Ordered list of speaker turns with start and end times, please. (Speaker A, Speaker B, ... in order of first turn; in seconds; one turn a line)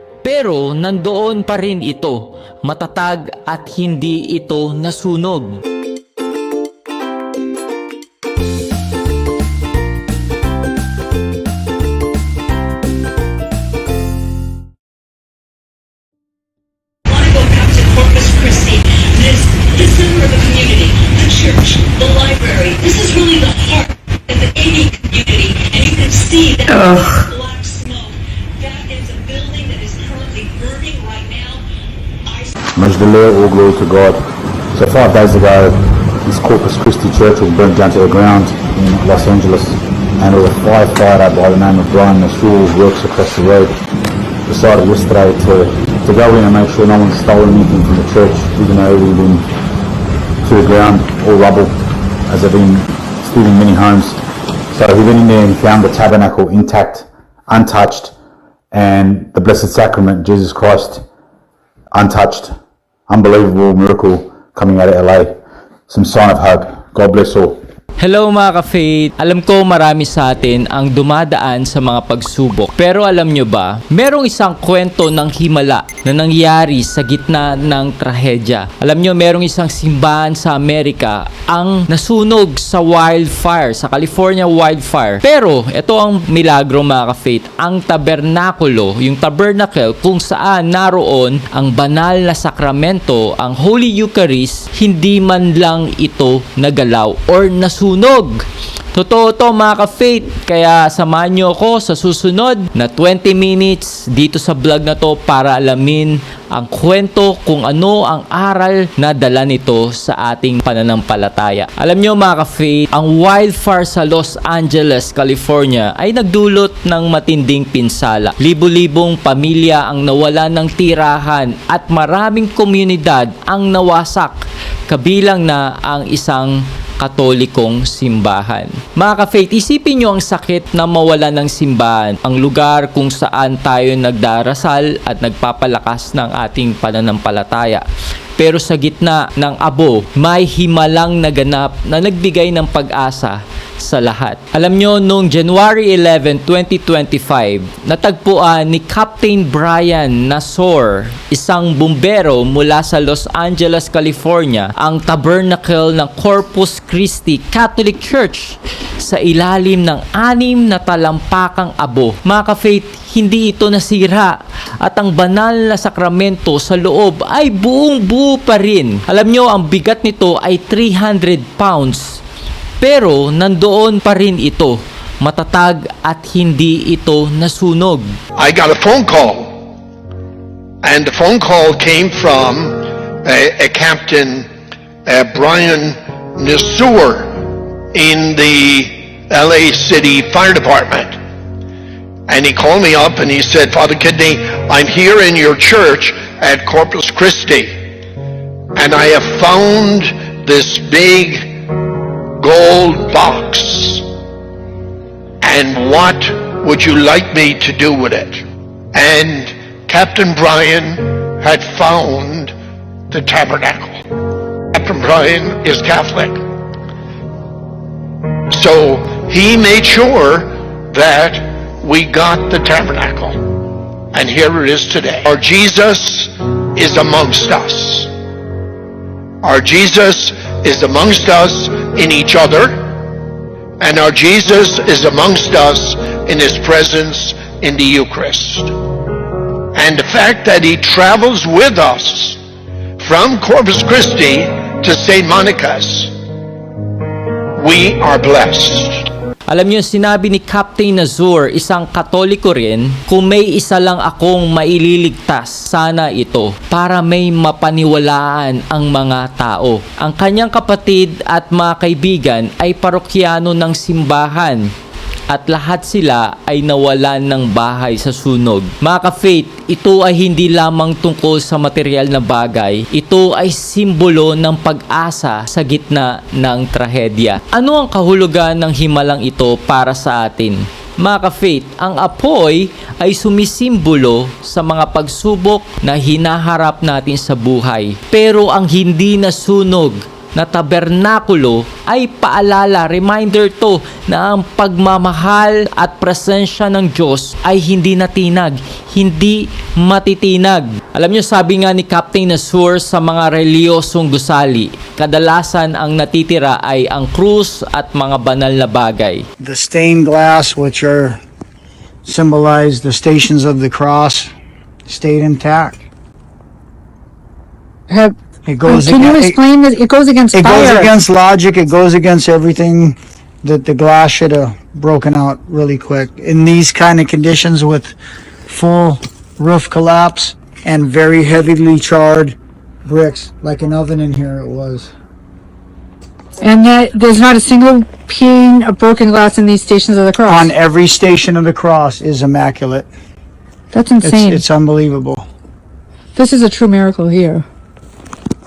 Speaker A: 0.2-5.6
Speaker B: 17.3-27.9
Speaker B: 28.6-31.5
Speaker C: 32.8-43.8
Speaker C: 44.5-49.5
Speaker C: 50.4-54.2
Speaker C: 54.7-58.1
Speaker C: 58.7-61.0
Speaker C: 61.9-62.5
Speaker C: 63.1-65.4
Speaker C: 65.9-67.6
Speaker A: 68.0-137.8
Speaker A: 138.4-172.2
Speaker A: 172.8-178.1
Speaker D: 178.3-179.6
Speaker D: 180.8-184.5
Speaker D: 185.1-191.2
Speaker D: 192.3-197.8
Speaker D: 198.7-201.8
Speaker D: 202.4-204.1
Speaker D: 205.4-212.5
Speaker D: 213.1-214.0
Speaker D: 214.7-216.4
Speaker D: 218.5-228.1
Speaker D: 229.4-233.1
Speaker D: 233.8-238.8
Speaker D: 239.7-242.4
Speaker D: 243.0-246.2
Speaker D: 247.6-249.1
Speaker A: 249.5-264.7
Speaker A: 265.3-309.2
Speaker E: 309.4-311.2
Speaker E: 312.0-314.3
Speaker E: 314.9-315.9
Speaker F: 317.9-320.9
Speaker E: 318.4-319.4
Speaker E: 320.3-334.9
Speaker F: 336.4-340.5
Speaker E: 340.2-342.9
Speaker F: 343.7-344.4
Speaker E: 344.0-345.3
Speaker F: 346.1-347.4